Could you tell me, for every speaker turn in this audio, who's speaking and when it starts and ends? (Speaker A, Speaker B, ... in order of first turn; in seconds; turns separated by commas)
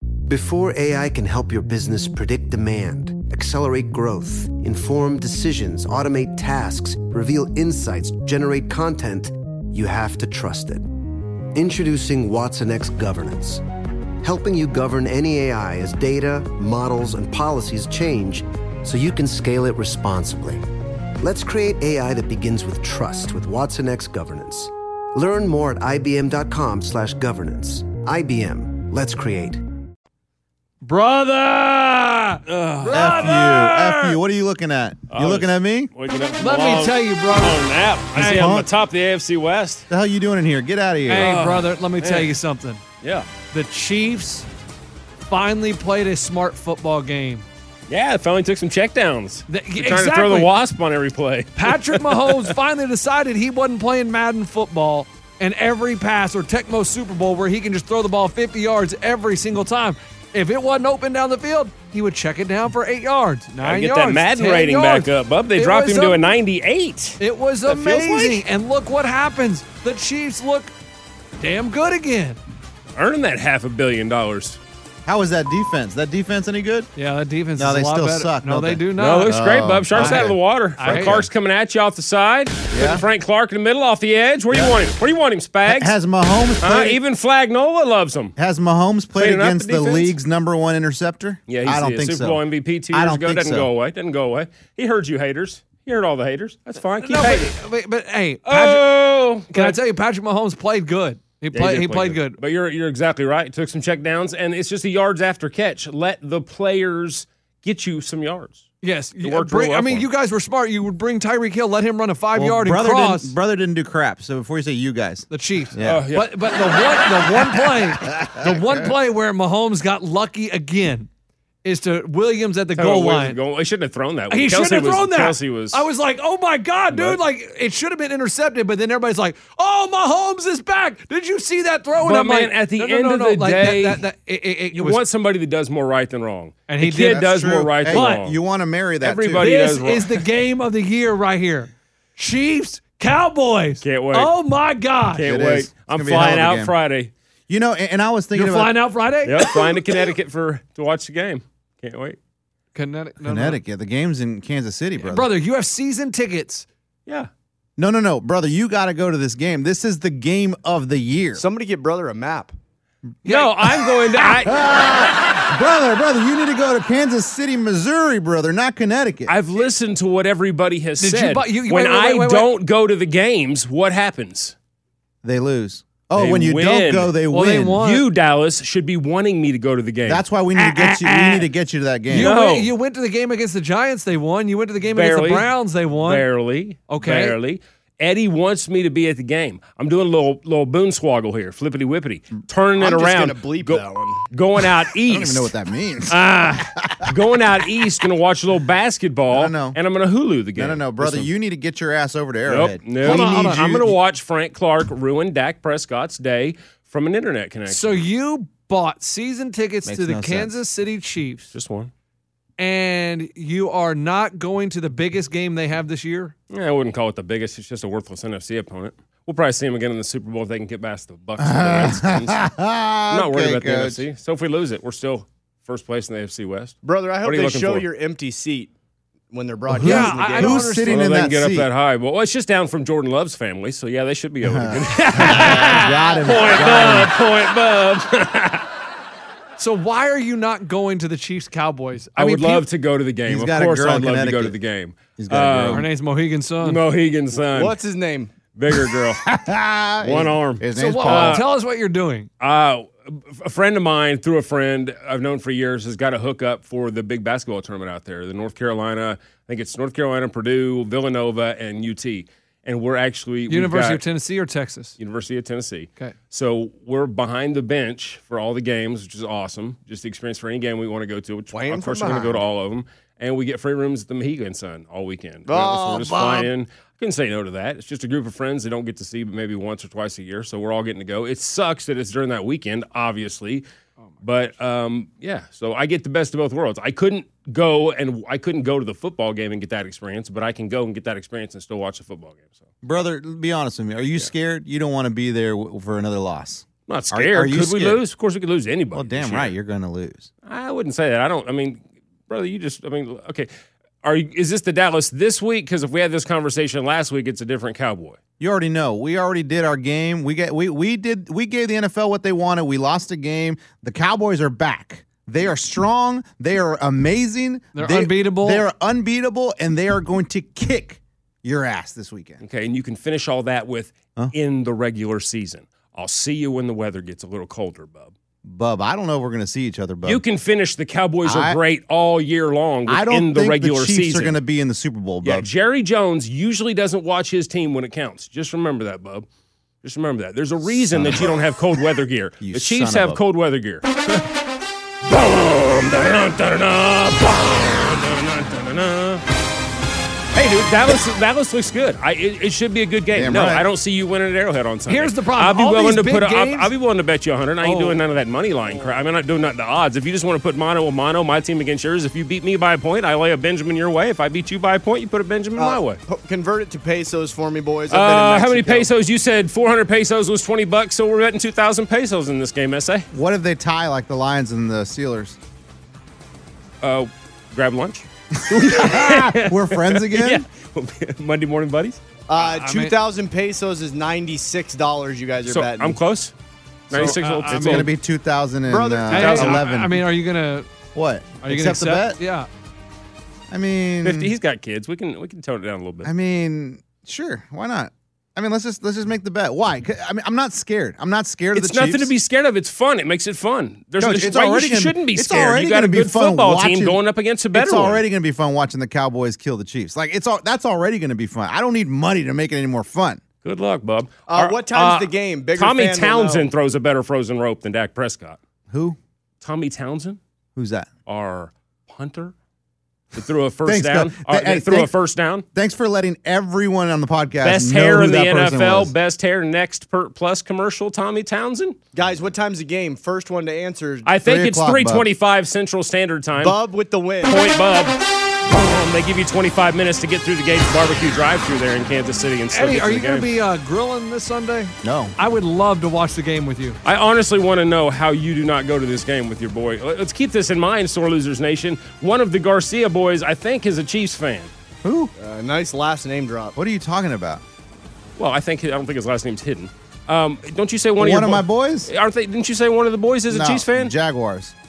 Speaker A: 0.3-10.9, Speaker A: 11.5-13.6, Speaker A: 14.2-20.6, Speaker A: 21.2-29.6, Speaker B: 30.8-34.1, Speaker C: 32.5-33.7, Speaker D: 32.9-35.9, Speaker C: 35.1-39.9, Speaker B: 36.4-38.6, Speaker D: 38.2-38.7, Speaker D: 39.9-41.3, Speaker B: 41.1-42.8, Speaker C: 41.1-42.4, Speaker C: 43.0-43.3, Speaker B: 43.5-44.5, Speaker B: 45.3-47.5, Speaker C: 47.9-52.5, Speaker B: 49.5-50.5, Speaker B: 51.5-66.3, Speaker C: 63.6-68.4, Speaker B: 67.2-70.7, Speaker B: 71.4-72.4, Speaker C: 73.0-74.6, Speaker D: 75.0-76.9, Speaker B: 77.0-79.4, Speaker D: 77.5-81.3, Speaker C: 79.0-85.9, Speaker B: 79.9-81.2, Speaker D: 82.7-83.0, Speaker D: 85.7-87.0, Speaker C: 86.6-88.3, Speaker D: 88.4-93.7, Speaker C: 89.1-90.2, Speaker C: 91.5-97.6, Speaker B: 97.0-98.8, Speaker C: 98.4-99.8, Speaker B: 99.5-102.4, Speaker C: 101.5-108.7, Speaker B: 108.8-113.3, Speaker C: 109.2-110.1, Speaker D: 112.3-116.0, Speaker B: 115.3-121.1, Speaker C: 115.8-116.7, Speaker D: 117.7-118.9, Speaker B: 121.6-123.4, Speaker C: 122.8-125.9, Speaker B: 124.3-135.0, Speaker C: 126.9-127.2, Speaker C: 132.0-134.1, Speaker C: 134.7-138.4, Speaker B: 136.7-137.3, Speaker D: 137.0-139.5, Speaker B: 137.8-138.3, Speaker C: 139.0-140.3, Speaker B: 139.4-145.3, Speaker C: 143.8-144.3, Speaker C: 145.1-147.1, Speaker D: 145.2-146.7, Speaker D: 147.5-148.8, Speaker B: 148.3-149.9, Speaker C: 149.2-152.2, Speaker B: 152.7-153.6, Speaker D: 153.2-155.3, Speaker B: 155.0-156.7, Speaker D: 157.8-161.4, Speaker E: 161.3-162.5, Speaker B: 163.2-164.5, Speaker C: 163.2-164.8, Speaker D: 164.3-169.3, Speaker C: 169.3-174.5, Speaker B: 171.0-172.5, Speaker D: 175.2-177.8, Speaker C: 176.1-177.2, Speaker B: 177.3-178.1, Speaker C: 177.8-180.2, Speaker D: 180.1-182.3, Speaker B: 180.6-181.5, Speaker B: 182.1-186.3, Speaker C: 182.1-182.7, Speaker C: 184.8-195.5, Speaker B: 186.9-187.4, Speaker E: 192.8-194.3, Speaker D: 195.1-196.3, Speaker C: 196.1-201.3, Speaker D: 199.3-199.8, Speaker D: 200.6-203.9, Speaker C: 202.4-208.1, Speaker B: 203.0-203.8, Speaker B: 207.7-211.5, Speaker D: 209.8-210.5, Speaker C: 211.5-211.9, Speaker B: 212.6-216.3, Speaker C: 216.5-222.4, Speaker D: 221.4-224.0, Speaker C: 223.1-227.9, Speaker E: 226.8-228.7, Speaker E: 229.3-230.8, Speaker D: 229.7-231.7, Speaker B: 229.8-231.1, Speaker C: 230.8-238.7, Speaker D: 234.4-237.1, Speaker B: 234.9-236.2, Speaker B: 239.6-242.7, Speaker C: 242.2-245.9, Speaker D: 243.3-244.5, Speaker D: 245.2-245.8, Speaker B: 245.7-246.8, Speaker C: 246.6-247.8, Speaker E: 247.4-248.3, Speaker C: 248.5-249.2, Speaker D: 249.2-251.4, Speaker C: 250.0-251.4, Speaker B: 250.7-252.3, Speaker C: 252.4-264.0, Speaker B: 263.5-264.9, Speaker C: 265.0-283.6, Speaker E: 271.5-272.4, Speaker E: 275.5-276.5, Speaker C: 284.2-292.6, Speaker D: 292.8-298.0, Speaker C: 296.9-299.5, Speaker D: 298.9-300.3, Speaker C: 300.4-303.5, Speaker C: 304.0-308.2, Speaker D: 308.4-322.4, Speaker B: 317.7-318.6, Speaker C: 322.4-328.1, Speaker D: 328.4-330.2, Speaker C: 330.0-334.4, Speaker D: 331.2-331.6, Speaker D: 332.9-335.5, Speaker C: 335.2-339.3, Speaker C: 339.8-344.2, Speaker D: 340.7-341.4, Speaker D: 342.4-343.2, Speaker C: 345.1-349.2, Speaker C: 350.3-366.0, Speaker D: 353.1-353.6, Speaker B: 354.9-356.7, Speaker B: 357.6-358.0, Speaker E: 365.6-368.9, Speaker C: 367.9-373.1, Speaker D: 373.1-375.4, Speaker C: 376.8-382.0, Speaker D: 378.4-380.4, Speaker E: 382.3-386.0, Speaker B: 382.4-382.9, Speaker C: 385.4-386.3, Speaker C: 386.9-387.9, Speaker B: 386.9-387.9, Speaker D: 387.0-390.0, Speaker E: 388.7-389.6, Speaker B: 389.1-390.7, Speaker C: 389.2-389.5, Speaker D: 390.9-392.2, Speaker B: 391.4-392.5, Speaker D: 393.5-394.3, Speaker C: 394.0-396.1, Speaker D: 396.0-402.1, Speaker C: 401.5-408.0, Speaker D: 404.0-407.0, Speaker D: 407.5-413.2, Speaker C: 413.4-418.4, Speaker E: 414.3-416.5, Speaker D: 418.7-419.0, Speaker C: 419.4-420.2, Speaker D: 420.6-420.9, Speaker C: 421.1-422.3, Speaker C: 423.1-425.4, Speaker D: 423.7-424.9, Speaker D: 425.5-428.9, Speaker C: 427.4-431.8, Speaker E: 431.9-434.1, Speaker C: 434.1-436.6, Speaker D: 434.2-435.1, Speaker E: 436.4-437.5, Speaker C: 437.2-443.3, Speaker B: 442.5-446.8, Speaker D: 444.8-445.1, Speaker C: 446.8-454.5, Speaker D: 454.8-455.1, Speaker E: 455.2-456.6, Speaker D: 456.6-457.4, Speaker C: 458.2-463.9, Speaker D: 461.0-461.9, Speaker D: 463.3-464.5